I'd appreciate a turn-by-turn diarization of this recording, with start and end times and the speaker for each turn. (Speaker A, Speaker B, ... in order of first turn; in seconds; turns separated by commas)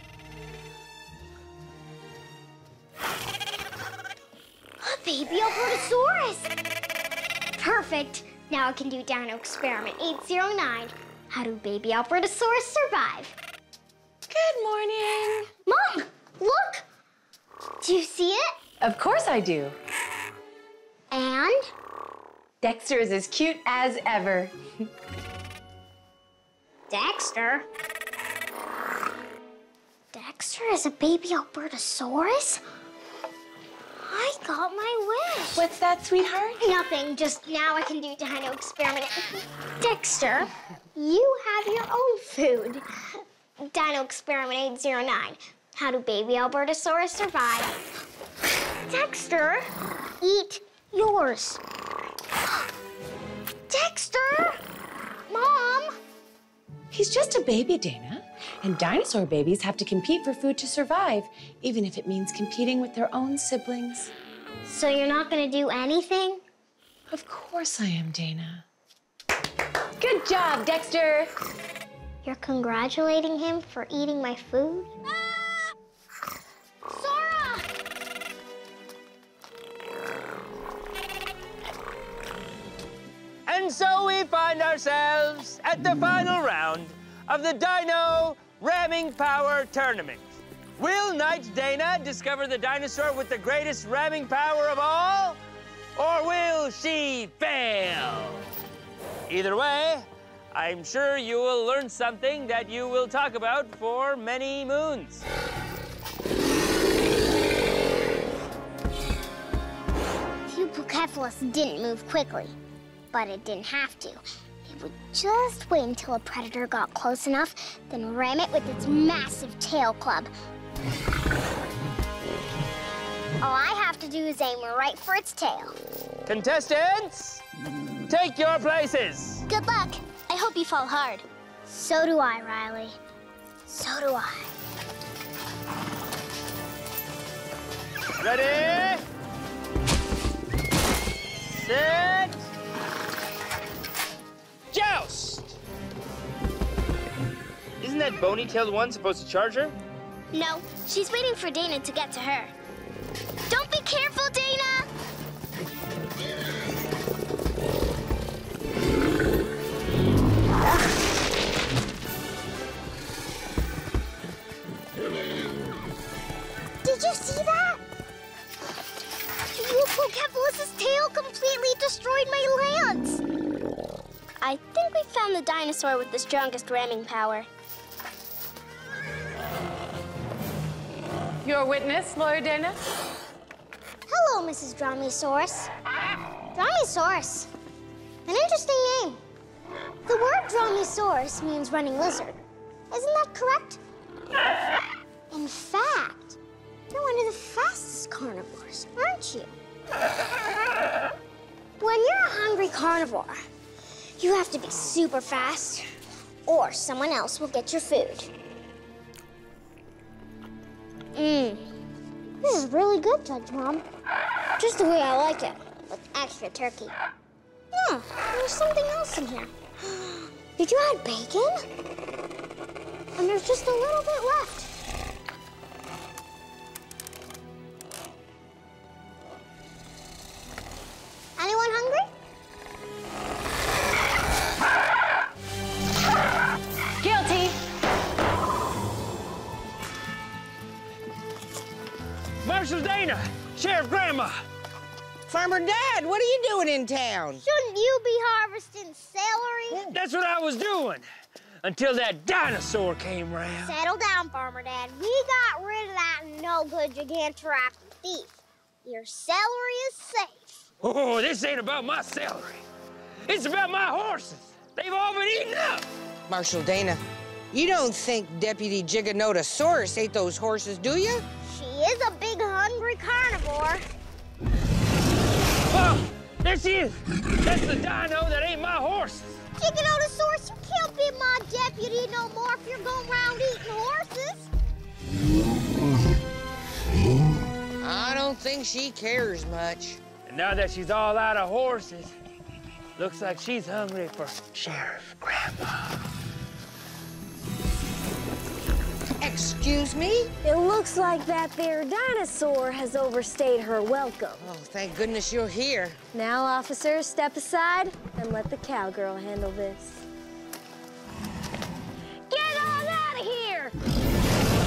Speaker A: 4.8-6.5, Speaker A: 7.6-13.3, Speaker B: 14.3-15.5, Speaker A: 15.7-16.8, Speaker A: 17.8-18.5, Speaker B: 18.8-19.8, Speaker A: 21.1-21.6, Speaker B: 22.6-24.5, Speaker A: 26.9-27.6, Speaker A: 30.1-32.6, Speaker A: 34.0-35.6, Speaker B: 35.5-36.6, Speaker A: 36.6-47.8, Speaker A: 48.9-49.7, Speaker A: 50.2-51.6, Speaker A: 53.7-54.6, Speaker A: 55.3-55.9, Speaker B: 56.9-64.1, Speaker A: 64.6-66.4, Speaker B: 67.1-68.6, Speaker B: 70.0-71.3, Speaker A: 72.2-74.9, Speaker A: 76.9-77.7, Speaker C: 83.5-90.2, Speaker C: 90.8-95.4, Speaker C: 96.0-98.4, Speaker C: 99.3-105.2, Speaker A: 110.5-112.5, Speaker A: 113.1-120.3, Speaker A: 123.4-125.8, Speaker C: 126.2-127.4, Speaker C: 128.1-129.4, Speaker A: 129.5-132.9, Speaker A: 133.7-134.5, Speaker C: 138.2-139.0, Speaker C: 141.5-142.3, Speaker C: 144.7-145.5, Speaker C: 147.8-149.7, Speaker A: 150.3-152.5, Speaker A: 153.5-154.9, Speaker A: 166.8-167.8, Speaker A: 169.5-173.2, Speaker A: 174.4-177.4, Speaker B: 181.4-182.8, Speaker A: 184.1-185.7, Speaker A: 186.5-187.5, Speaker A: 188.2-189.2, Speaker A: 190.1-192.4, Speaker A: 192.9-193.8, Speaker A: 195.3-196.4, Speaker A: 196.9-199.5, Speaker A: 201.8-203.3, Speaker A: 204.2-205.8, Speaker A: 206.4-208.3, Speaker A: 211.1-211.7, Speaker A: 212.4-213.8, Speaker A: 214.6-216.9, Speaker A: 217.7-221.6, Speaker A: 223.2-224.7, Speaker A: 231.4-232.1, Speaker B: 237.0-237.6, Speaker C: 242.4-244.3, Speaker D: 245.3-247.4, Speaker A: 247.4-249.9, Speaker C: 249.8-251.0, Speaker C: 251.6-253.7, Speaker A: 253.6-260.6, Speaker C: 260.8-262.6, Speaker C: 263.2-265.9, Speaker D: 266.3-267.0, Speaker D: 267.5-271.2, Speaker A: 271.4-273.8, Speaker C: 275.7-279.4, Speaker A: 279.6-284.5, Speaker D: 287.8-290.0, Speaker C: 290.2-292.1, Speaker C: 293.0-295.9, Speaker D: 299.2-300.3, Speaker E: 300.4-304.4, Speaker D: 304.4-306.0, Speaker E: 306.1-310.0, Speaker E: 312.3-313.7